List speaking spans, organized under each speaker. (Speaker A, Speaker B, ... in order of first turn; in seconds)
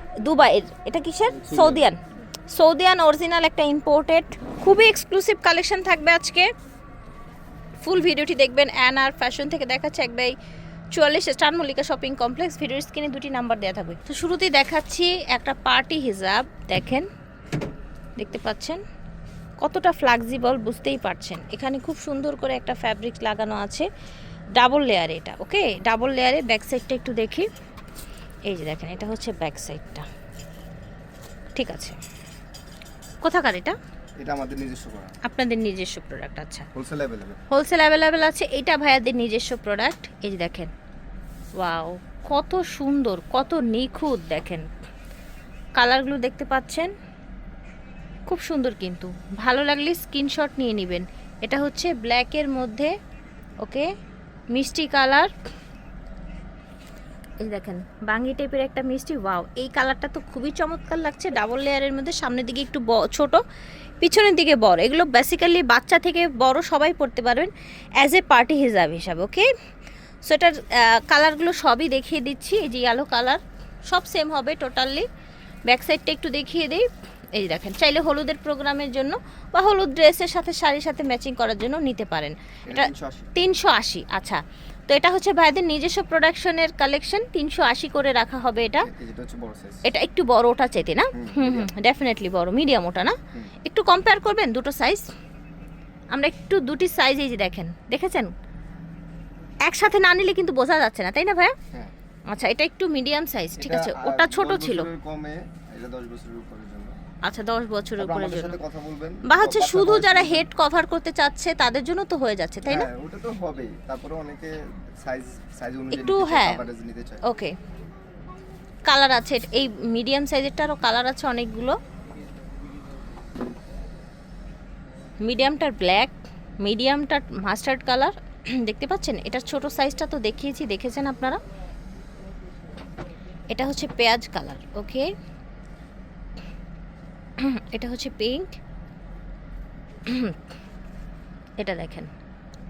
Speaker A: 0.2-2.0, 2.5-6.5, 7.8-10.3, 10.9-17.1, 18.2-18.8, 19.6-23.9, 24.6-27.5, 28.5-30.1, 31.6-32.0, 33.2-33.8, 35.2-36.7, 37.5-40.7, 41.6-44.7, 45.8-46.9, 48.3-52.9, 53.6-53.9, 54.5-55.3, 57.4-63.4, 64.0-69.5, 70.2-75.1, 75.7-88.9, 89.8-95.1, 96.1-98.3, 99.7-101.5, 102.3-104.9, 107.2-108.6, 109.2-112.9, 115.9-116.7, 117.2-117.5, 118.9-121.8, 125.2-131.4, 133.5-135.1, 137.4-138.6, 140.1-140.4, 141.6-142.1
Speaker B: 1.3-1.9, 34.2-35.2, 36.7-37.4, 82.7-83.3, 88.8-89.8, 91.1-91.7, 103.6-106.9, 108.0-110.5, 112.7-117.2